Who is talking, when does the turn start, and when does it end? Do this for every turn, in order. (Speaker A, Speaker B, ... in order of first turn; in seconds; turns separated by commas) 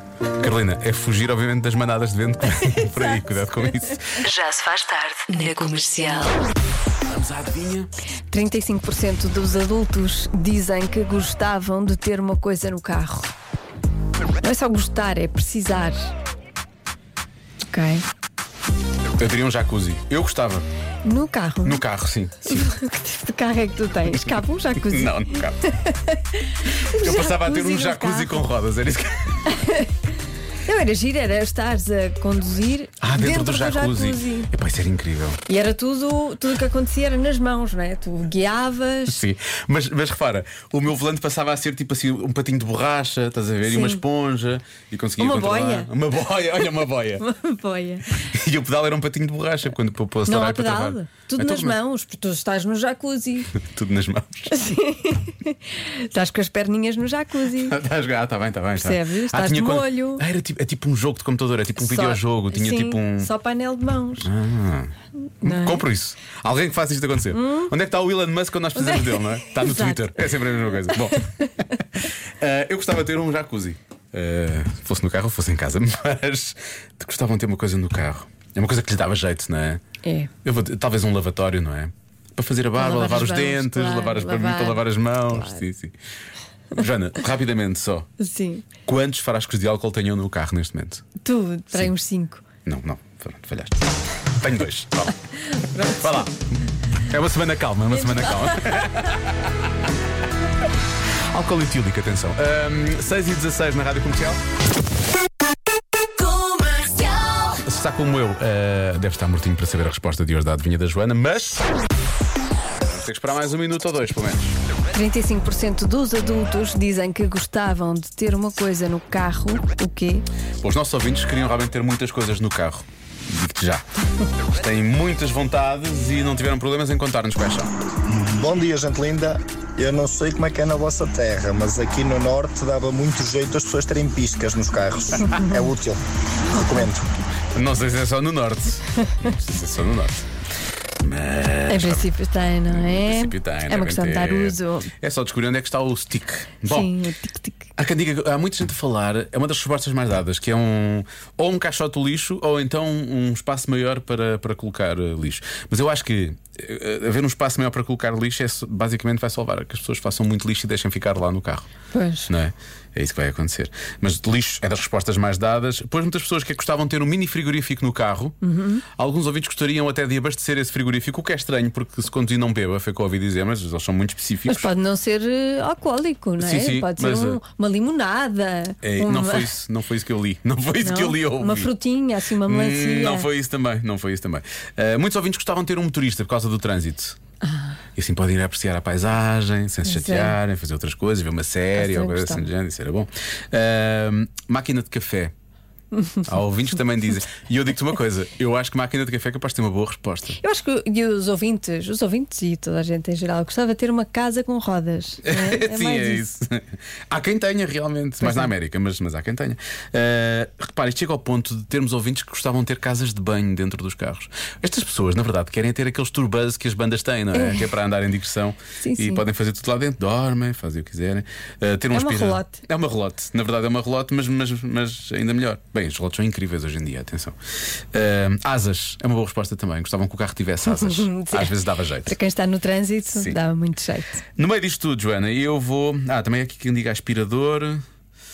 Speaker A: 0.4-4.2, Speaker B: 4.2-6.4, Speaker A: 7.1-7.9, Speaker C: 8.3-13.3, Speaker C: 14.4-16.1, Speaker C: 17.7-18.0, Speaker A: 19.2-20.6, Speaker C: 21.0-21.8, Speaker A: 21.6-22.7, Speaker C: 22.5-28.4, Speaker A: 24.1-25.6, Speaker A: 26.9-29.6, Speaker C: 29.5-29.9, Speaker C: 30.6-34.5, Speaker A: 33.0-35.4, Speaker C: 35.5-39.2, Speaker A: 39.1-47.2, Speaker C: 43.6-44.0, Speaker C: 45.2-45.9, Speaker C: 47.2-48.0, Speaker A: 48.2-51.8, Speaker C: 50.2-53.5, Speaker A: 53.5-54.5, Speaker C: 54.5-57.8, Speaker A: 57.6-63.3, Speaker C: 58.8-60.2, Speaker C: 61.8-64.3, Speaker A: 64.2-79.8, Speaker C: 65.4-65.8, Speaker C: 67.3-67.7, Speaker C: 68.8-71.4, Speaker C: 80.0-80.3, Speaker A: 80.4-85.9, Speaker C: 82.8-85.6, Speaker A: 86.7-88.1, Speaker C: 88.2-88.7, Speaker A: 88.8-91.0, Speaker C: 91.2-92.4, Speaker A: 92.6-95.2, Speaker C: 95.5-96.2, Speaker A: 95.9-99.5, Speaker C: 97.9-98.9, Speaker A: 101.3-104.4, Speaker B: 106.9-107.4, Speaker A: 107.5-111.6, Speaker A: 112.8-114.5, Speaker C: 114.9-120.2, Speaker A: 120.6-123.8, Speaker A: 124.3-127.7, Speaker D: 128.1-137.1, Speaker C: 135.2-135.7, Speaker A: 137.5-140.2, Speaker A: 141.0-142.1, Speaker C: 141.7-144.9, Speaker A: 142.7-146.9, Speaker C: 146.7-147.7, Speaker A: 147.8-161.7, Speaker C: 161.9-162.3, Speaker A: 162.3-168.3, Speaker C: 168.4-168.8, Speaker A: 168.9-174.7, Speaker C: 174.5-179.5, Speaker A: 176.4-177.4, Speaker A: 178.8-181.7, Speaker C: 180.8-183.3, Speaker A: 182.4-187.2, Speaker C: 187.4-187.8, Speaker A: 187.9-195.3, Speaker C: 189.8-190.4, Speaker C: 191.8-192.4, Speaker C: 195.9-196.3, Speaker A: 196.3-200.4, Speaker C: 200.4-206.2, Speaker A: 205.2-227.3, Speaker C: 208.2-208.5, Speaker C: 217.3-217.6, Speaker C: 218.8-219.2, Speaker C: 221.9-222.6, Speaker A: 227.9-232.1, Speaker C: 230.7-234.2, Speaker A: 234.3-237.8